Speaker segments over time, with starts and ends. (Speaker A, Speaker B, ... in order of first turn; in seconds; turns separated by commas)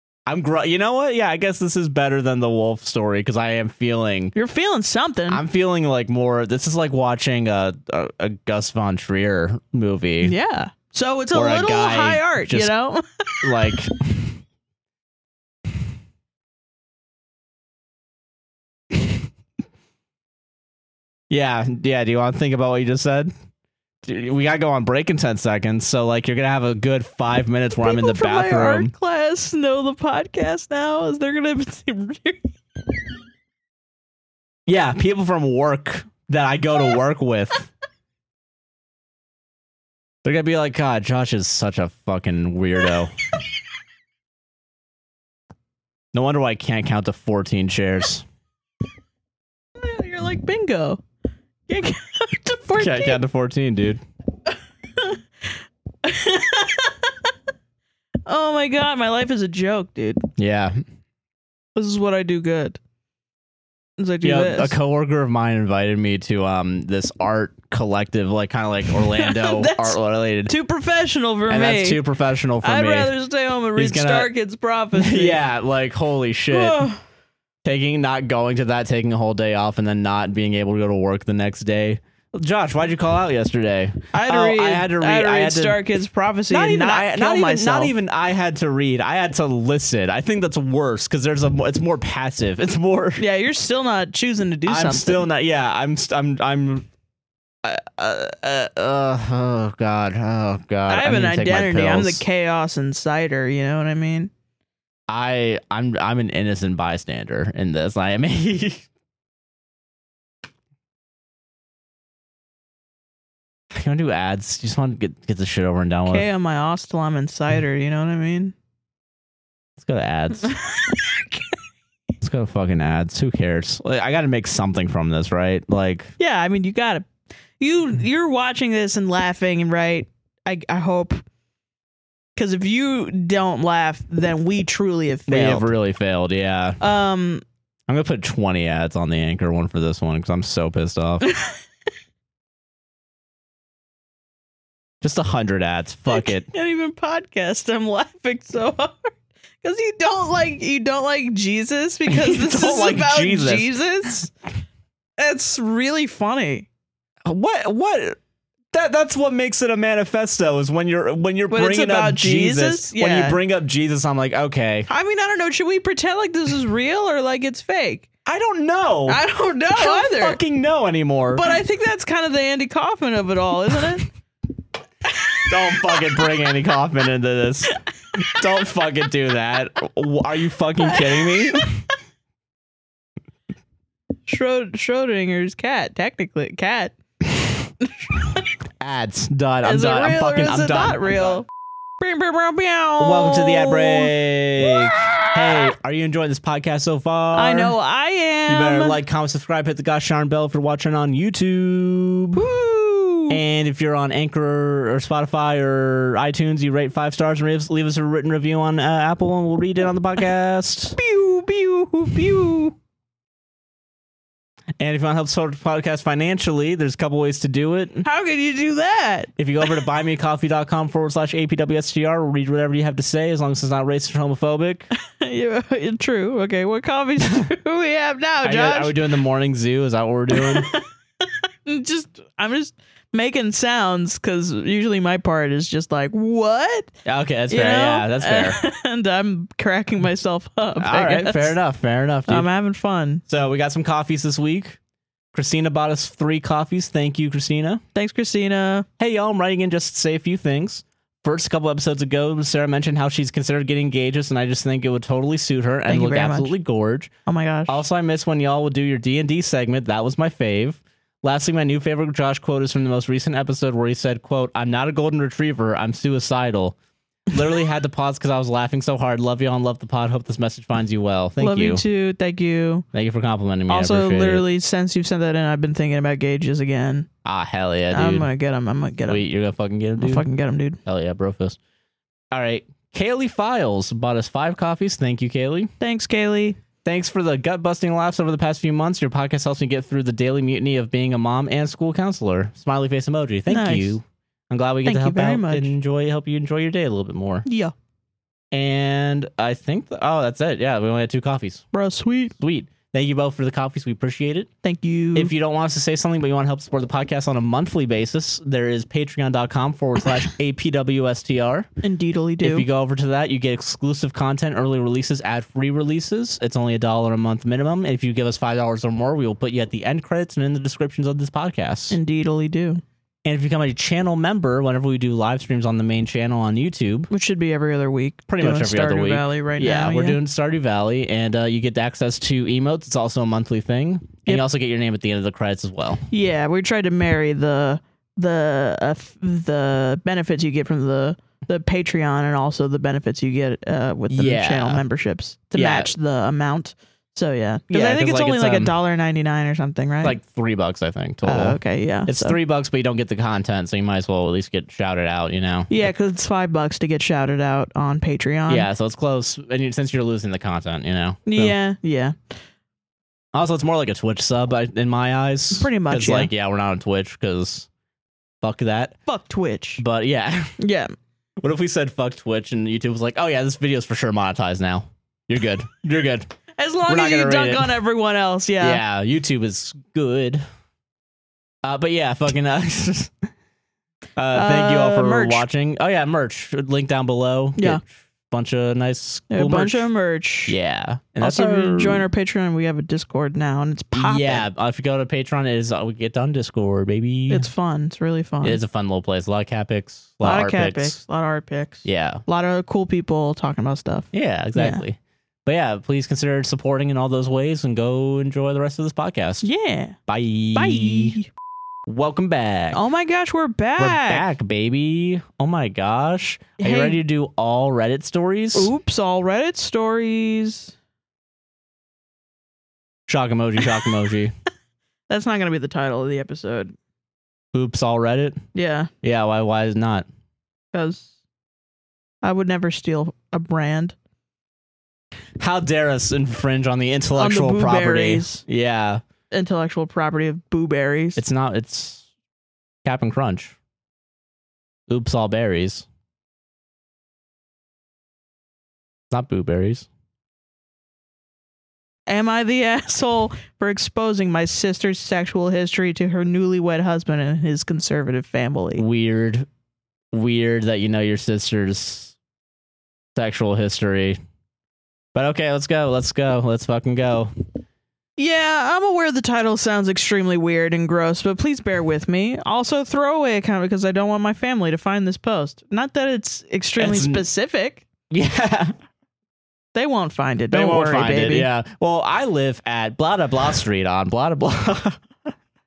Speaker A: 0.3-4.3, Speaker B: 4.3-5.4, Speaker A: 5.3-10.3, Speaker B: 10.2-13.8, Speaker A: 11.3-12.7, Speaker A: 13.4-14.4, Speaker A: 21.3-23.3, Speaker A: 24.0-28.9, Speaker B: 27.8-32.5, Speaker A: 34.7-37.7, Speaker A: 40.2-43.1, Speaker A: 46.1-48.2, Speaker B: 49.8-51.0, Speaker B: 51.7-53.2, Speaker A: 52.8-54.0, Speaker B: 55.0-55.2, Speaker B: 56.0-57.3, Speaker B: 58.2-60.3, Speaker A: 60.4-60.8, Speaker B: 61.8-62.8, Speaker B: 64.0-64.7, Speaker A: 64.2-70.5, Speaker B: 69.1-70.0, Speaker B: 70.5-72.0, Speaker A: 71.5-73.1, Speaker B: 72.6-75.4, Speaker A: 73.8-74.3, Speaker A: 74.9-76.8, Speaker B: 76.5-77.0, Speaker A: 77.6-85.8, Speaker B: 84.1-87.9, Speaker A: 86.5-93.2, Speaker B: 93.2-95.2, Speaker A: 94.7-96.9, Speaker A: 97.6-102.2, Speaker B: 100.9-104.3, Speaker A: 105.1-108.8, Speaker A: 113.7-116.3, Speaker B: 116.0-118.5, Speaker A: 119.8-120.5, Speaker B: 120.5-121.4, Speaker A: 122.2-126.1, Speaker B: 126.2-127.1, Speaker B: 127.6-131.2, Speaker B: 132.3-135.7, Speaker A: 135.3-136.8, Speaker B: 136.8-137.4, Speaker A: 137.9-141.2, Speaker B: 141.2-141.6, Speaker A: 145.0-146.5, Speaker B: 146.1-154.3, Speaker A: 152.1-153.7, Speaker B: 155.2-156.7, Speaker A: 157.2-158.2, Speaker A: 158.7-164.9, Speaker B: 161.5-163.4, Speaker B: 164.9-168.1, Speaker A: 168.2-169.2, Speaker B: 169.1-170.4, Speaker A: 169.7-171.4, Speaker B: 171.3-174.1, Speaker B: 175.1-176.3, Speaker A: 175.5-181.8, Speaker B: 180.8-181.8, Speaker B: 184.2-186.9, Speaker B: 187.9-188.5, Speaker A: 188.8-191.3, Speaker B: 189.6-191.4, Speaker B: 192.0-195.7, Speaker A: 193.0-197.7, Speaker B: 197.3-199.0, Speaker A: 198.5-202.4, Speaker B: 202.3-203.4, Speaker A: 203.3-211.0, Speaker B: 211.0-212.8, Speaker A: 214.8-218.1, Speaker B: 218.0-219.3, Speaker A: 219.4-224.9, Speaker B: 225.1-228.9, Speaker A: 228.4-230.7, Speaker B: 230.3-230.8, Speaker B: 231.7-236.9, Speaker A: 237.0-238.6, Speaker B: 237.5-241.6, Speaker A: 240.8-242.5, Speaker B: 242.3-243.2, Speaker A: 243.3-244.8, Speaker A: 245.3-247.8, Speaker B: 247.9-248.8, Speaker A: 249.0-257.1, Speaker B: 255.9-256.5, Speaker B: 257.2-257.8, Speaker A: 257.7-266.8, Speaker A: 267.3-271.8, Speaker B: 271.4-272.9, Speaker A: 272.9-274.4, Speaker B: 273.7-277.1, Speaker A: 277.2-278.3, Speaker B: 277.9-279.2, Speaker A: 279.1-280.2, Speaker B: 280.0-280.8, Speaker A: 280.8-281.6, Speaker A: 282.3-285.7, Speaker B: 285.8-286.6, Speaker A: 286.8-297.4, Speaker B: 293.5-294.0, Speaker B: 294.8-295.7, Speaker B: 297.4-297.7, Speaker A: 298.5-301.6, Speaker B: 301.7-302.3, Speaker A: 302.4-304.5, Speaker B: 304.6-305.3, Speaker A: 305.1-311.7, Speaker B: 311.8-312.6, Speaker A: 312.4-322.0, Speaker B: 321.9-322.8, Speaker A: 323.2-327.1, Speaker B: 327.1-330.2, Speaker A: 328.3-336.1, Speaker B: 336.1-350.1, Speaker A: 344.1-344.8, Speaker A: 345.5-345.9, Speaker A: 347.7-348.7, Speaker A: 350.0-355.8, Speaker B: 351.2-352.4, Speaker B: 355.7-358.7, Speaker A: 358.5-361.5, Speaker B: 361.2-362.1, Speaker A: 363.3-367.7, Speaker B: 365.5-366.3, Speaker A: 368.4-368.9, Speaker B: 369.1-369.8, Speaker A: 369.8-370.5, Speaker B: 370.6-370.9, Speaker A: 371.4-376.3, Speaker B: 376.6-378.8, Speaker A: 376.9-377.7, Speaker A: 378.6-380.4, Speaker A: 381.6-383.1, Speaker A: 384.2-389.9, Speaker B: 384.3-385.4, Speaker B: 389.3-390.6, Speaker A: 390.5-392.1, Speaker B: 391.2-394.4, Speaker A: 393.9-397.5, Speaker B: 397.3-398.6, Speaker A: 398.4-401.0, Speaker B: 400.2-404.8, Speaker A: 401.8-402.2, Speaker A: 404.1-409.5, Speaker B: 409.4-409.9, Speaker A: 410.1-411.1, Speaker B: 410.5-411.3, Speaker A: 411.9-412.8, Speaker B: 412.7-414.2, Speaker A: 413.8-418.7, Speaker B: 416.6-417.0, Speaker B: 418.5-420.7, Speaker A: 423.1-424.3, Speaker B: 425.1-426.7, Speaker A: 427.5-428.4, Speaker B: 428.5-428.9, Speaker A: 429.0-430.1, Speaker B: 430.7-431.1, Speaker B: 432.2-433.9, Speaker A: 435.4-439.0, Speaker B: 437.1-438.4, Speaker B: 439.3-441.2, Speaker A: 441.1-442.1, Speaker A: 442.8-443.6, Speaker A: 444.9-445.9, Speaker A: 449.1-449.9, Speaker B: 452.1-458.8, Speaker A: 458.8-459.5, Speaker A: 460.1-462.1, Speaker A: 463.1-464.2, Speaker A: 465.1-467.3, Speaker B: 468.2-477.8, Speaker A: 476.8-477.2, Speaker A: 478.1-478.7, Speaker B: 479.7-481.5, Speaker A: 480.5-485.0